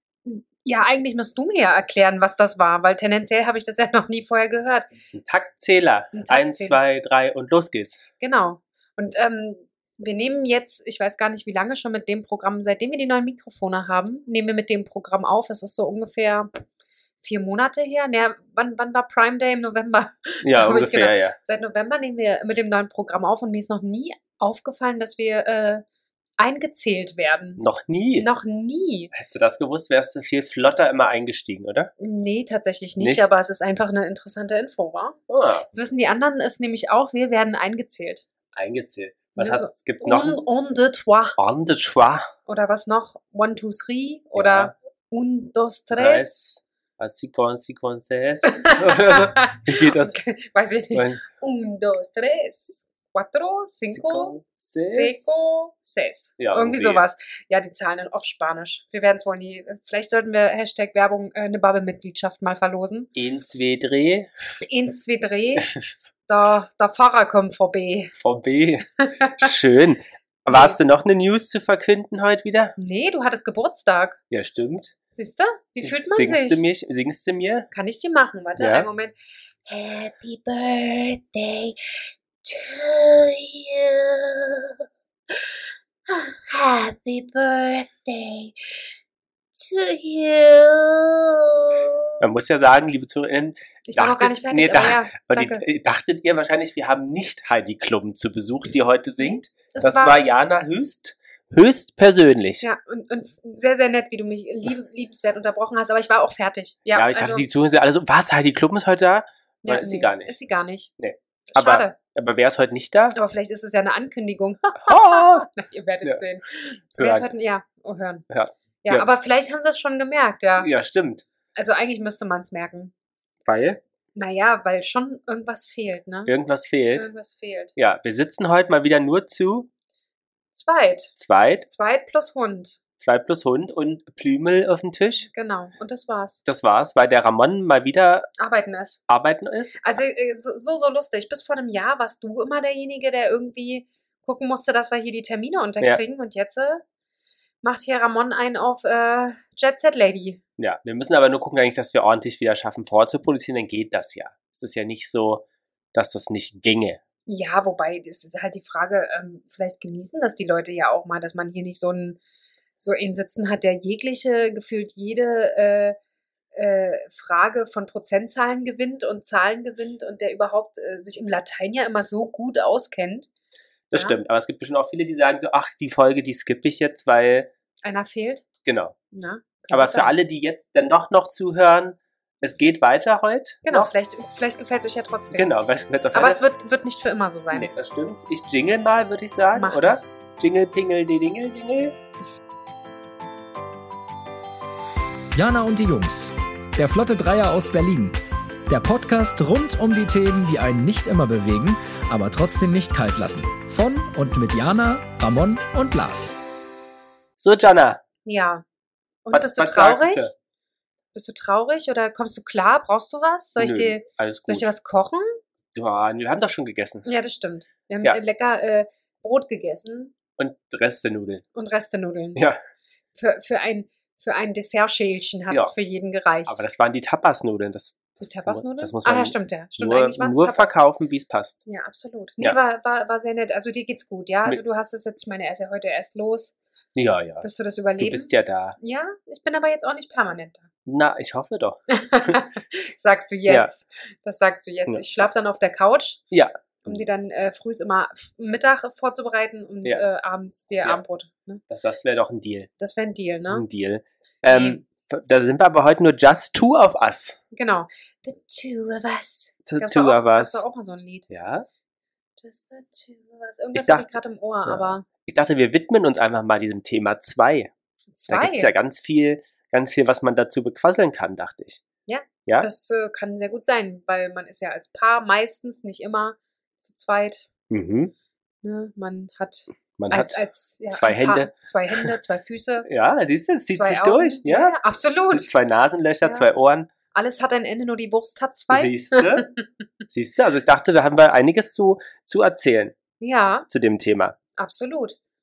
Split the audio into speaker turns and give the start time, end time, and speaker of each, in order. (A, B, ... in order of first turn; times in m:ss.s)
0:00.2-0:04.9 A
0:05.0-0:08.0 B
0:06.1-0:06.8 A
0:08.2-0:16.6 A
0:17.2-0:25.8 A
0:20.4-0:21.4 B
0:26.4-0:27.6 A
0:27.6-0:28.3 B
0:28.2-0:29.1 A
0:29.1-0:31.9 B
0:32.0-0:35.2 A
0:33.0-0:33.3 B
0:35.3-0:35.7 B
0:35.7-0:38.3 A
0:38.5-0:40.4 B
0:39.4-0:41.4 A
0:41.4-0:42.3 B
0:42.5-0:46.4 A
0:44.4-0:44.7 B
0:45.9-0:50.2 B
0:48.4-0:54.4 A
0:50.9-0:51.2 B
0:53.9-0:55.4 B
0:54.9-1:03.1 A
0:56.4-0:57.0 B
1:03.2-1:04.3 B
1:04.6-1:05.7 A
1:06.3-1:08.1 A
1:08.2-1:08.9 B
1:09.0-1:09.4 A
1:09.4-1:12.8 B
1:10.5-1:10.8 A
1:12.8-1:14.2 A
1:14.3-1:15.0 B
1:15.2-1:16.6 A
1:15.8-1:17.7 B
1:17.7-1:19.2 A
1:18.6-1:18.9 B
1:19.7-1:24.8 A
1:26.1-1:28.9 A
1:29.6-1:32.2 A
1:32.2-1:42.6 B
1:33.9-1:35.6 A
1:39.2-1:40.2 A
1:42.6-1:47.4 A
1:46.9-1:50.4 B
1:49.6-1:50.9 A
1:51.0-1:53.2 B
1:51.5-1:52.0 A
1:53.2-1:58.3 A
1:54.8-1:55.5 B
1:57.0-1:57.3 B
1:58.3-1:59.1 B
1:58.8-2:00.7 A
2:00.6-2:01.2 B
2:01.6-2:02.9 A
2:03.4-2:03.8 B
2:04.2-2:06.3 A
2:06.3-2:07.1 B
2:07.0-2:07.7 A
2:07.8-2:09.7 B
2:10.5-2:12.8 A
2:11.2-2:11.7 B
2:13.0-2:15.3 B
2:15.3-2:16.4 A
2:16.4-2:18.3 B
2:18.4-2:19.0 A
2:19.1-2:20.0 B
2:19.8-2:26.8 A
2:27.6-2:30.4 A
2:30.6-2:37.0 B
2:37.3-2:42.2 A
2:42.8-2:46.0 A
2:46.5-2:53.3 A
2:53.9-2:57.5 B
2:57.8-2:58.5 A
2:58.6-2:59.0 B
2:59.1-3:00.2 A
2:59.7-3:03.9 B
3:03.6-3:05.5 A
3:05.3-3:06.4 B
3:06.1-3:07.7 A
3:07.5-3:12.0 B
3:09.5-3:10.1 A
3:15.3-3:26.4 C
3:27.4-3:28.0 B
3:28.3-3:28.6 A
3:29.2-3:30.3 A
3:29.3-3:30.3 B
3:31.1-3:35.4 A
3:33.6-3:34.7 B
3:35.7-3:37.1 B
3:37.0-3:40.1 A
3:40.4-3:41.4 B
3:41.5-3:42.5 A
3:42.4-3:42.6 B
3:43.2-3:46.6 A
3:46.5-3:51.6 B
3:48.2-3:50.8 A
3:51.6-3:56.6 A
3:57.0-3:57.5 B
3:57.4-4:00.7 A
3:58.0-3:58.8 B
4:00.9-4:02.4 B
4:01.9-4:06.2 A
4:06.3-4:07.0 B
4:06.8-4:11.6 A
4:11.7-4:12.7 B
4:12.8-4:13.7 A
4:13.5-4:17.4 B
4:14.5-4:14.8 A
4:17.5-4:21.3 A
4:19.7-4:20.6 B
4:21.3-4:21.7 B
4:22.4-4:25.1 A
4:23.7-4:27.7 B
4:28.2-4:28.7 A
4:28.3-4:31.8 B
4:32.1-4:37.5 A
4:37.7-4:38.1 B
4:38.6-4:42.9 A
4:40.0-4:42.1 B
4:42.9-4:46.9 B
4:43.7-4:45.5 A
4:46.2-4:46.5 A
4:47.1-4:49.6 A
4:48.7-4:49.5 B
4:50.1-4:53.0 B
4:53.2-4:53.7 A
4:53.7-4:54.4 B
4:54.6-4:55.2 A